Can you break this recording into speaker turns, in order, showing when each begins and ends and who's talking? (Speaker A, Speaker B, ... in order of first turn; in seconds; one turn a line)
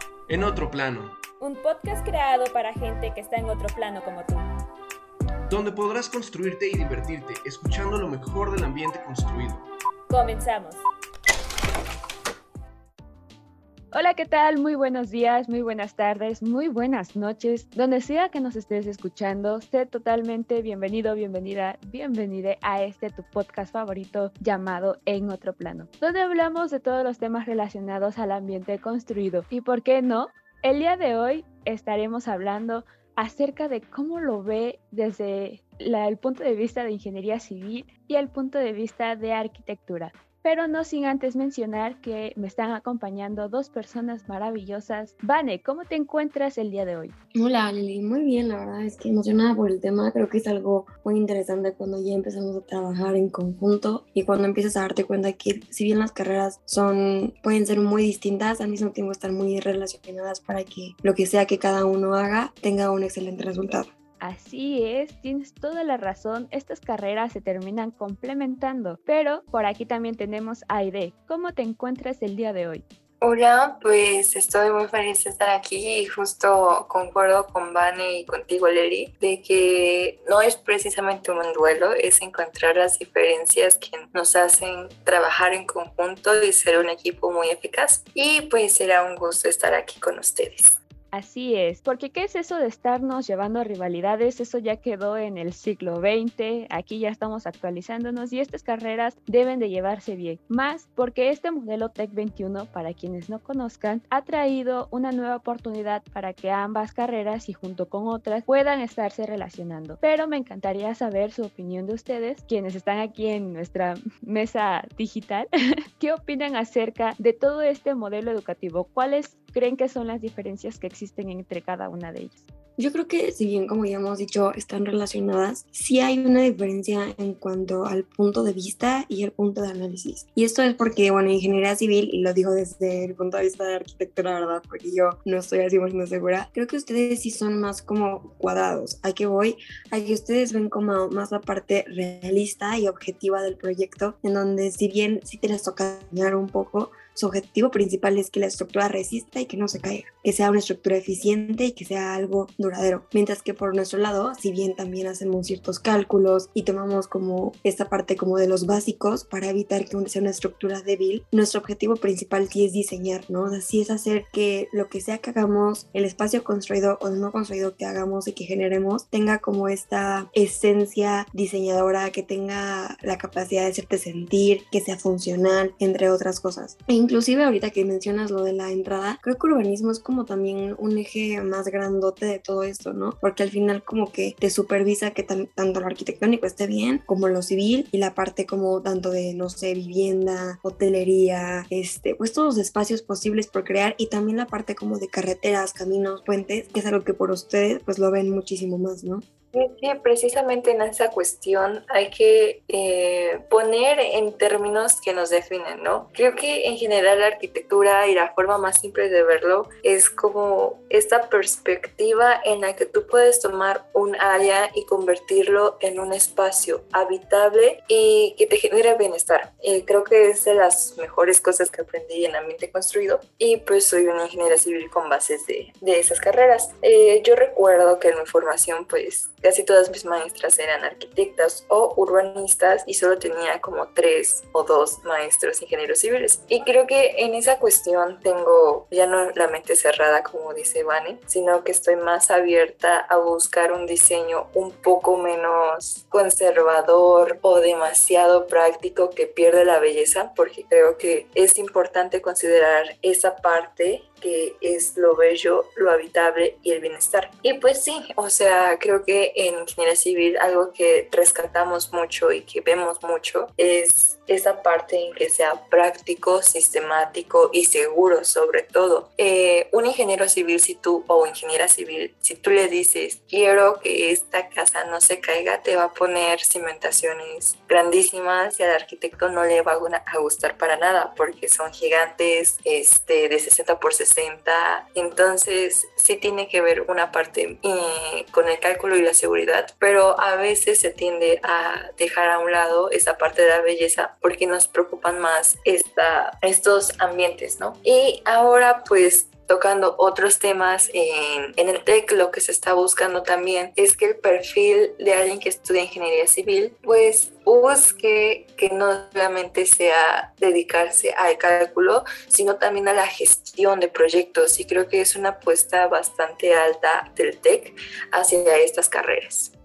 Speaker A: 0.3-1.2
Speaker B: 1.4-4.4
Speaker C: 1.5-4.4
Speaker A: 5.5-9.7
Speaker C: 10.1-10.8
Speaker B: 13.9-47.1
Speaker D: 47.4-63.9
Speaker B: 64.2-72.8
Speaker E: 73.2-90.8
Speaker B: 91.1-122.4
Speaker D: 122.8-199.2
Speaker E: 199.5-319.5